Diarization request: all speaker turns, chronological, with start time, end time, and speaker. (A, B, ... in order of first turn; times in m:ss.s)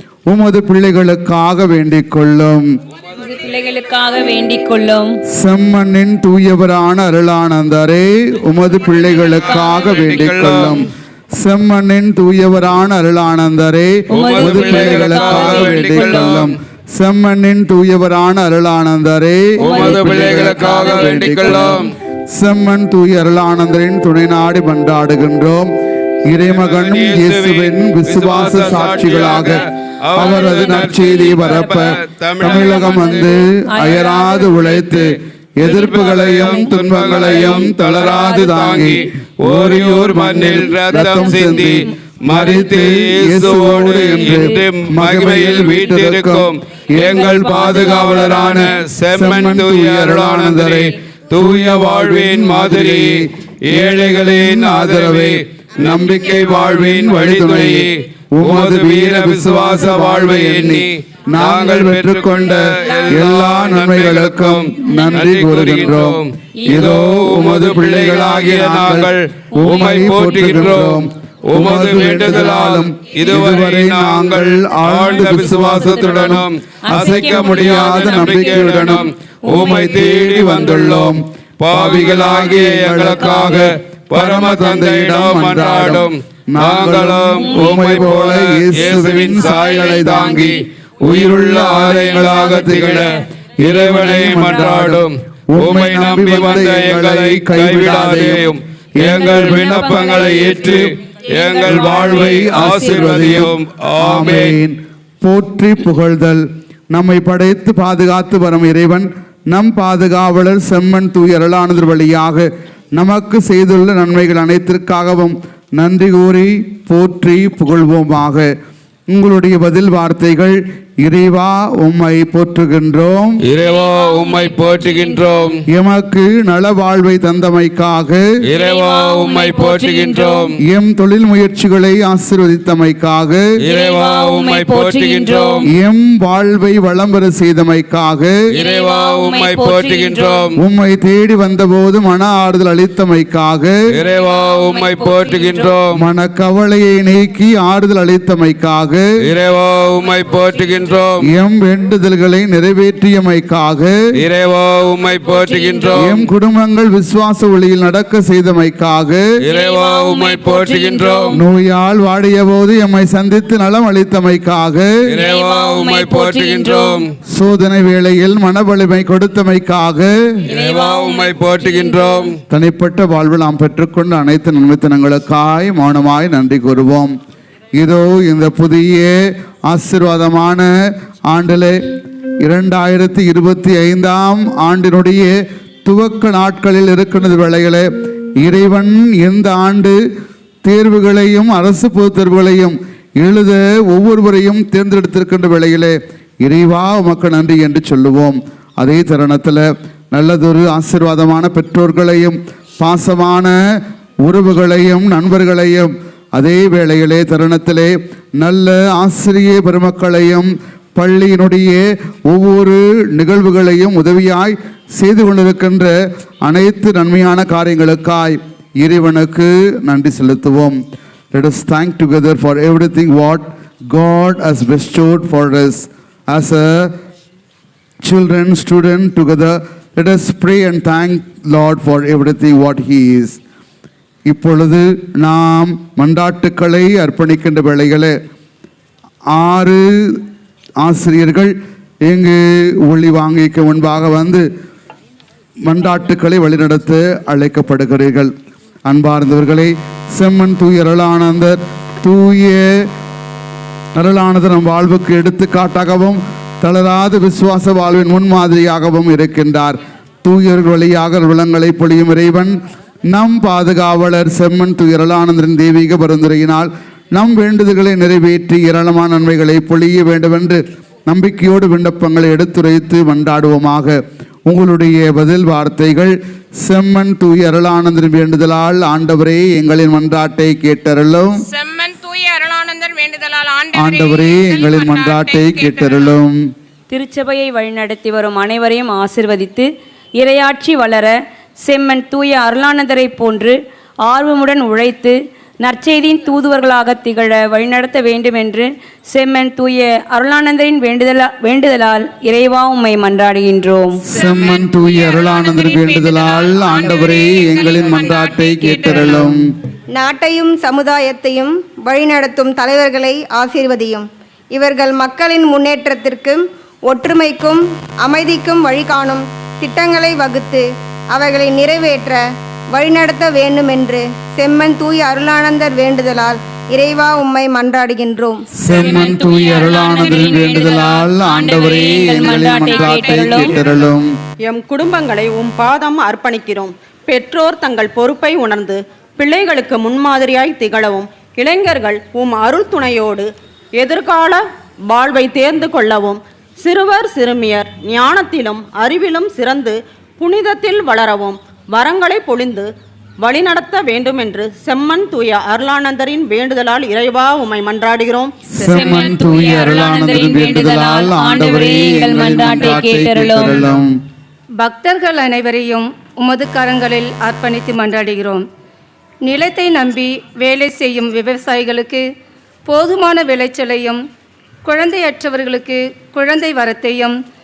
0:00.3-0:02.7 A
0:03.2-0:05.2 B
0:05.3-0:25.7 A
0:09.4-0:10.8 C
0:14.1-0:16.5 C
0:14.1-0:16.4 B
0:19.6-0:21.8 C
0:19.6-0:21.8 B
0:26.3-0:29.6 A
0:26.4-0:33.4 C
0:30.1-0:50.9 A
0:30.2-0:31.8 B
0:32.4-0:35.0 B
0:35.6-1:33.1 C
0:36.4-0:38.9 B
0:40.1-0:40.7 B
0:47.0-0:48.7 B
0:51.5-1:33.1 A
1:02.9-1:03.2 B
1:06.6-1:07.0 B
1:15.2-1:18.9 B
1:19.5-1:20.0 B
1:29.2-1:29.9 B
1:31.9-1:33.1 B
1:33.6-1:44.6 C
1:33.6-1:40.8 A
1:33.8-1:34.5 B
1:39.2-1:43.2 B
1:41.6-1:58.5 A
1:59.1-2:03.4 A
2:03.4-2:05.6 C
2:03.6-2:05.2 B
2:05.7-2:08.2 A
2:08.5-2:10.6 C
2:08.5-2:10.5 B
2:10.6-2:13.4 A
2:13.6-2:15.6 C
2:13.7-2:15.7 B
2:15.7-2:18.4 A
2:18.5-2:20.5 B
2:18.5-2:20.6 C
2:20.6-2:23.8 A
2:23.9-2:26.0 C
2:24.1-2:25.7 B
2:25.9-2:29.1 A
2:29.2-2:31.2 C
2:31.2-2:34.0 A
2:34.2-2:36.2 C
2:35.3-2:36.0 B
2:36.0-2:39.2 A
2:39.4-2:41.4 C
2:39.5-2:41.4 B
2:41.3-2:44.9 A
2:45.1-2:47.1 C
2:45.2-2:47.0 B
2:47.3-2:50.1 A
2:50.5-2:52.3 B
2:50.5-2:52.3 C
2:52.5-2:57.1 A
2:57.8-2:59.2 A
2:59.7-3:00.7 A
3:01.3-3:01.8 A
3:02.4-3:05.3 A
3:05.8-3:07.9 A
3:08.4-3:10.0 A
3:10.6-3:23.6 A
3:24.2-3:35.9 A
3:36.4-3:40.8 A
3:41.3-3:46.9 A
3:48.0-3:53.4 A
3:54.3-3:58.1 A
3:59.3-4:00.2 A
4:00.8-4:01.5 A
4:02.0-4:04.4 A
4:05.6-4:08.3 A
4:08.9-4:12.8 A
4:14.0-4:22.6 A
4:23.1-4:41.4 A
4:41.5-4:46.1 D
4:43.7-4:46.4 A
4:46.9-4:49.7 B
4:50.2-4:51.1 B
4:51.6-4:53.6 B
4:54.1-5:04.0 B
5:04.1-5:09.5 A
5:04.1-5:09.1 D
5:09.9-5:22.2 E
5:22.7-5:28.4 E
5:28.6-5:34.1 A
5:28.6-5:33.6 B
5:34.4-5:52.7 F
5:53.2-5:58.3 F
5:58.5-6:03.9 A
5:58.6-6:03.6 B
6:04.6-6:08.4 G
6:09.2-6:12.0 G
6:12.7-6:14.0 G
6:14.6-6:17.2 G